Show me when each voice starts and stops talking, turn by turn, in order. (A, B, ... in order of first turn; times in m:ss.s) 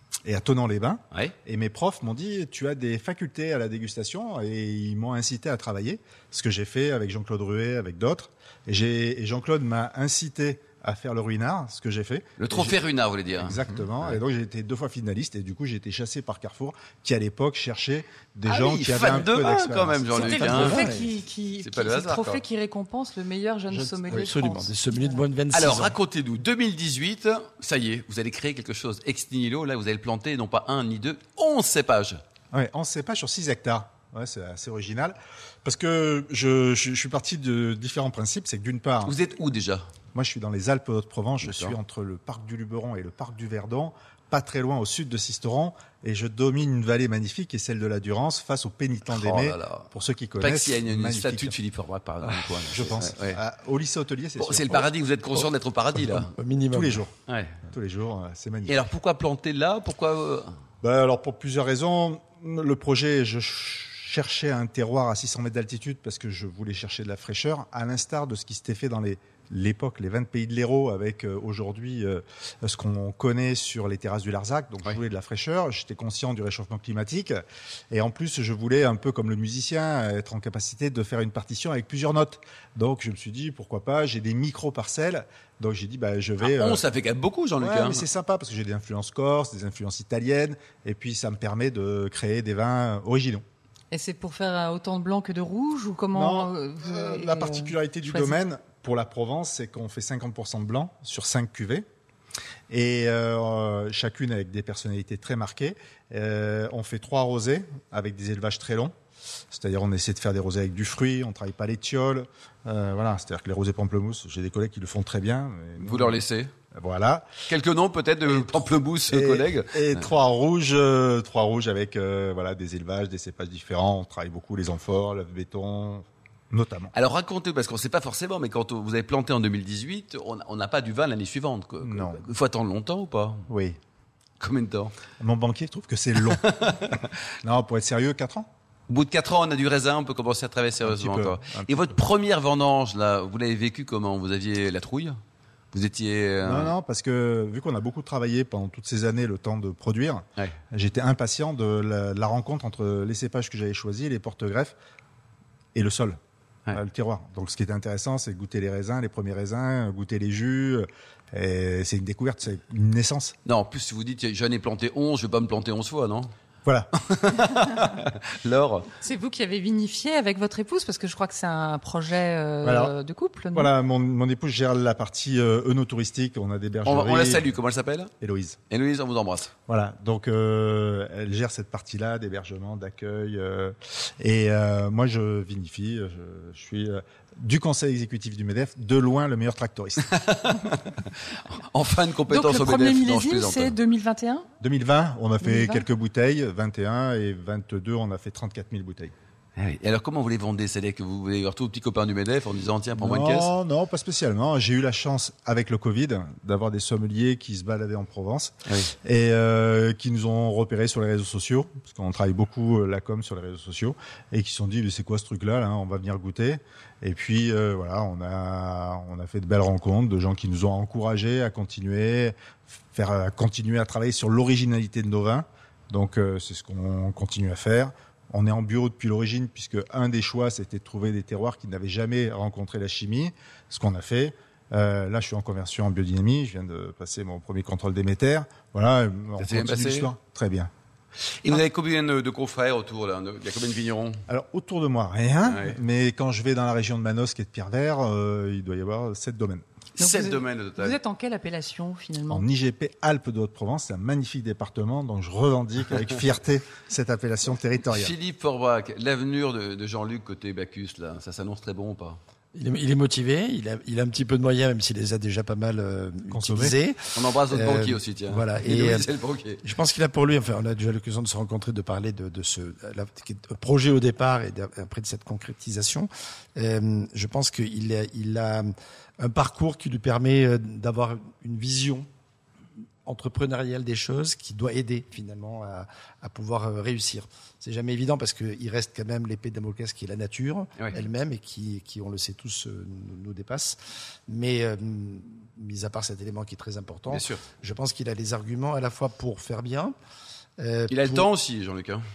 0:00.2-0:12.8 A
0:12.4-0:14.2 B
0:13.4-0:20.6 A
0:18.5-0:20.8 B
0:20.1-0:25.3 C
0:20.2-0:21.2 D
0:21.6-0:22.4 B
0:23.7-0:26.0 D
0:25.5-0:32.2 B
0:32.5-0:39.2 A
0:39.0-0:39.8 B
0:40.1-0:51.6 A
0:41.4-0:41.8 B
0:49.1-0:53.4 B
0:52.7-0:54.9 A
0:54.4-0:56.3 B
0:56.0-0:57.1 D
0:56.7-0:57.1 A
0:57.3-0:57.6 B
0:57.7-0:58.8 A
0:58.7-1:00.5 B
1:00.8-1:26.8 A
1:26.4-1:28.1 B
1:27.6-1:33.4 A
1:33.9-1:38.4 C
1:36.1-1:41.9 A
1:42.7-1:48.9 A
1:49.5-1:56.2 A
1:55.8-1:56.5 B
1:56.7-1:57.3 A
1:57.5-2:00.1 B
1:58.3-2:06.9 A
2:06.9-2:13.4 B
2:11.8-2:12.2 A
2:13.5-2:13.8 A
2:14.4-2:14.9 B
2:15.2-2:16.5 A
2:16.3-2:17.1 B
2:17.4-2:18.5 A
2:18.9-2:25.2 B
2:20.8-2:22.0 A
2:25.7-2:26.7 B
2:26.4-2:34.8 A
2:35.8-2:36.2 A
2:36.7-2:43.4 A
2:43.5-2:46.3 B
2:46.6-2:46.9 A
2:47.1-2:48.9 B
2:49.0-2:53.7 C
2:52.6-2:53.0 A
2:53.5-2:57.5 A
2:56.8-2:58.1 B
2:58.2-2:58.6 A
2:58.7-2:59.5 B
2:59.7-3:10.1 A
3:10.1-3:11.1 B
3:11.7-3:13.8 B
3:12.3-3:14.5 C
3:14.6-3:19.1 A
3:15.4-3:15.9 C
3:19.6-3:23.5 B
3:23.0-3:42.4 A
3:42.9-4:00.7 A
3:59.4-4:00.1 B
4:01.4-4:04.2 B
4:04.3-4:09.6 A
4:05.5-4:05.8 B
4:10.0-4:11.0 B
4:10.0-4:12.5 C
4:12.3-4:18.2 A
4:17.9-4:22.2 B
4:22.5-4:42.1 D
4:26.3-4:26.8 A
4:27.1-4:29.6 B
4:43.0-5:00.0 D
4:57.1-4:57.4 B
5:00.6-5:01.3 D
5:00.9-5:02.0 B